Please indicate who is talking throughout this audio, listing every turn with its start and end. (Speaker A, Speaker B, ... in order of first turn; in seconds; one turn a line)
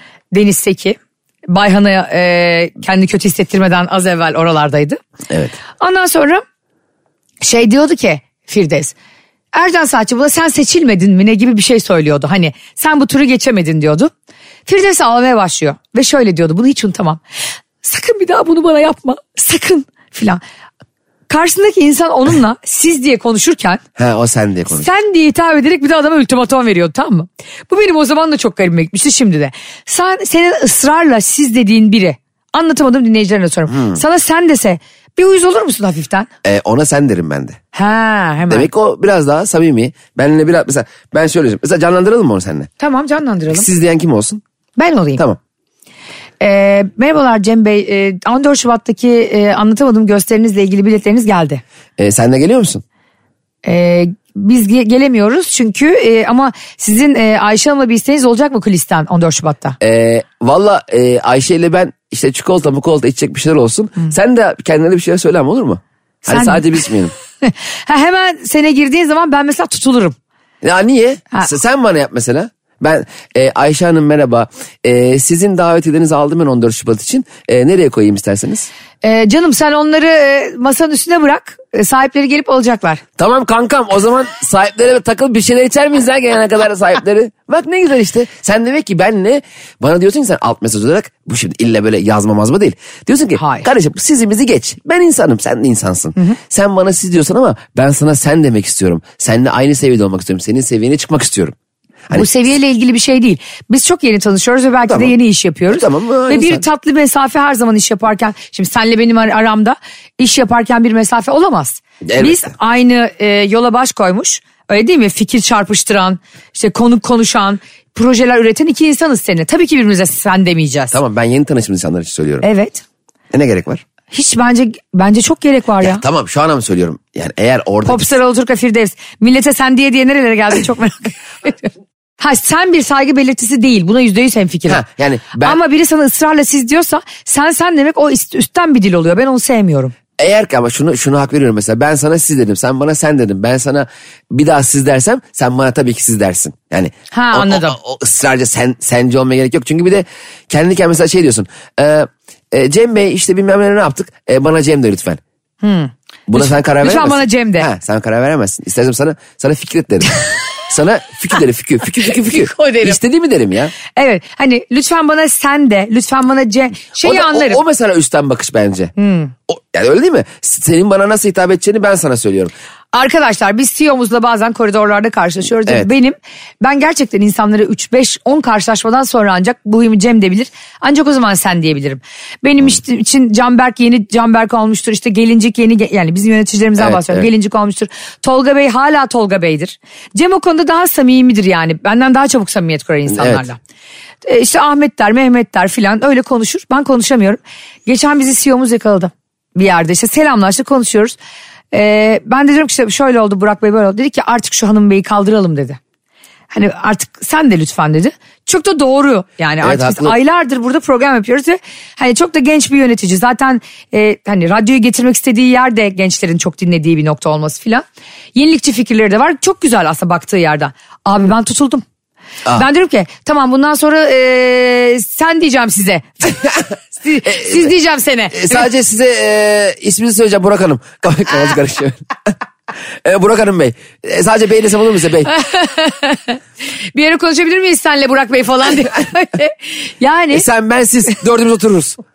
Speaker A: 0.3-5.0
Speaker B: 5.3-5.5
Speaker A: 5.8-6.4
Speaker A: 7.4-8.9
Speaker A: 9.5-14.1
Speaker A: 14.7-17.2
Speaker A: 17.8-20.4
Speaker A: 21.3-23.8
Speaker B: 24.0-24.9
Speaker A: 24.7-36.3
Speaker B: 33.7-34.0
Speaker B: 36.4-37.6
Speaker A: 37.7-38.7
Speaker B: 38.5-42.7
Speaker A: 42.8-43.7
Speaker B: 43.5-44.4
Speaker A: 44.8-45.2
Speaker A: 46.4-51.6
Speaker B: 52.0-52.8
Speaker A: 53.6-59.8
Speaker B: 59.8-67.1
Speaker A: 66.2-66.7
Speaker A: 67.4-70.2
Speaker B: 70.6-78.7
Speaker A: 79.0-83.0
Speaker B: 83.2-101.5
Speaker A: 93.4-93.7
Speaker A: 102.1-121.0
Speaker B: 104.9-105.1
Speaker B: 105.7-106.6
Speaker B: 112.0-112.5
Speaker B: 120.9-122.5
Speaker A: 122.4-122.8
Speaker B: 123.3-123.8
Speaker A: 124.1-126.0
Speaker B: 125.8-128.2
Speaker A: 127.9-134.8
Speaker B: 134.7-135.6
Speaker A: 135.3-139.9
Speaker B: 140.2-155.2
Speaker A: 147.1-147.8
Speaker A: 155.6-157.7
Speaker B: 156.3-163.7
Speaker A: 162.2-163.0
Speaker A: 163.9-167.6
Speaker B: 167.0-168.9
Speaker A: 169.0-169.3
Speaker B: 169.5-172.5
Speaker A: 172.9-193.6
Speaker B: 186.8-187.3
Speaker B: 193.1-193.5
Speaker A: 194.2-201.2
Speaker A: 201.7-205.8
Speaker A: 206.5-217.8
Speaker B: 209.6-210.2
Speaker A: 218.3-221.8
Speaker A: 222.5-226.4
Speaker A: 227.0-228.7
Speaker B: 227.2-227.7
Speaker B: 228.3-232.0
Speaker B: 233.0-235.3
Speaker A: 235.3-236.4
Speaker A: 236.9-240.4
Speaker B: 240.3-242.0